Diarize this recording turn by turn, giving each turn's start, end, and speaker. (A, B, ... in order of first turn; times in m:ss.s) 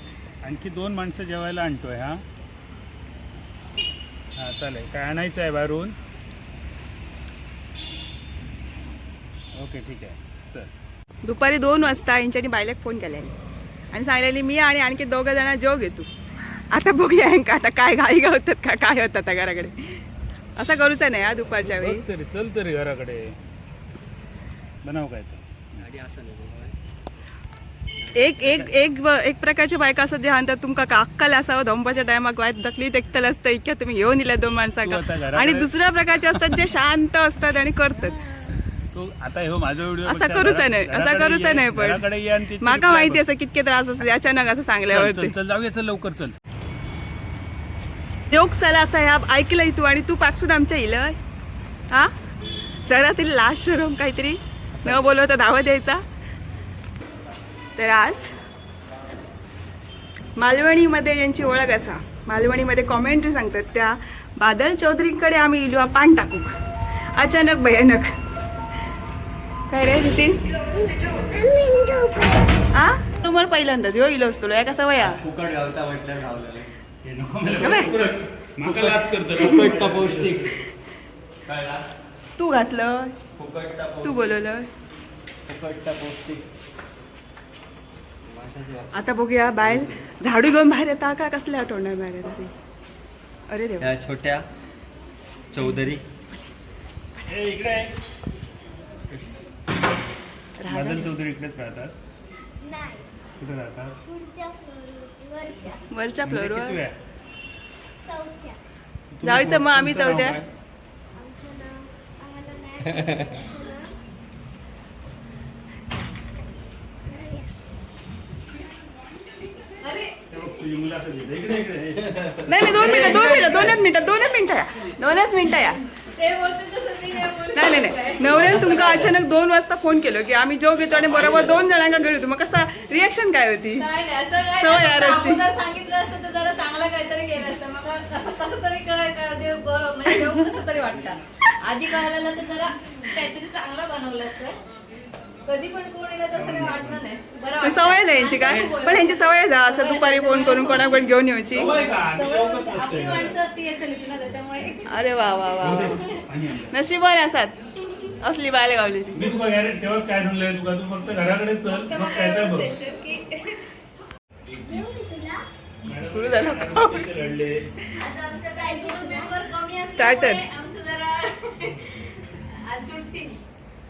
0:00.4-0:02.2 A
0:04.4-0:06.0 A
0:09.6-0:10.7 A
0:11.2-0:13.3 B
0:13.9-0:16.1 B
0:16.7-0:20.0 B
0:20.6-0:22.0 B
0:21.6-0:23.4 A
0:24.8-0:25.8 A
0:25.8-0:26.8 C
0:28.0-0:28.7 C
0:28.1-0:38.5 B
0:34.8-0:35.7 A
0:38.9-0:43.2 A
0:40.0-0:42.0 B
0:42.6-0:45.3 B
0:44.9-0:46.4 A
0:48.3-0:51.2 B
0:52.8-0:56.0 B
0:54.8-0:55.1 A
0:57.8-0:58.3 B
1:00.4-1:06.5 B
1:07.1-1:08.1 B
1:09.7-1:10.4 B
1:11.4-1:12.2 D
1:12.7-1:15.2 B
1:15.0-1:16.7 C
1:17.0-1:20.5 A
1:17.6-1:18.0 B
1:17.6-1:20.6 C
1:21.4-1:21.8 C
1:22.4-1:23.1 B
1:23.4-1:24.3 C
1:24.0-1:24.7 B
1:25.5-1:26.5 C
1:28.2-1:30.0 C
1:28.9-1:32.5 B
1:33.5-1:33.9 B
1:33.8-1:34.4 C
1:35.5-1:36.0 C
1:37.2-1:37.9 A
1:40.6-1:41.1 B
1:40.7-1:41.9 A
1:42.6-1:43.1 D
1:43.4-1:44.0 A
1:44.1-1:45.8 D
1:45.9-1:46.8 B
1:46.2-1:46.9 A
1:48.0-1:48.6 D
1:49.1-1:50.5 A
1:49.2-1:50.4 B
1:51.1-1:53.9 D
1:57.1-1:57.4 D
1:59.8-2:00.2 E
2:00.3-2:03.8 A
2:02.4-2:05.8 B
2:03.1-2:03.6 E
2:05.9-2:09.1 E
2:07.5-2:13.9 B
2:10.9-2:11.6 C
2:11.0-2:11.5 A
2:13.8-2:24.6 E
2:14.5-2:15.4 B
2:25.4-2:31.0 E
2:26.3-2:27.0 A
2:27.6-2:31.7 B
2:31.5-2:33.4 A
2:31.6-2:35.1 E
2:34.9-2:36.0 B
2:35.6-2:36.7 A
2:35.6-2:36.1 E
2:36.7-2:37.5 B
2:38.1-2:39.2 B
2:39.1-2:42.7 A
2:41.6-2:43.6 E
2:44.5-2:45.4 D
2:45.8-2:47.7 A
2:45.9-2:47.1 B
2:47.9-2:53.4 E
2:48.6-2:49.2 D
2:49.9-2:50.4 B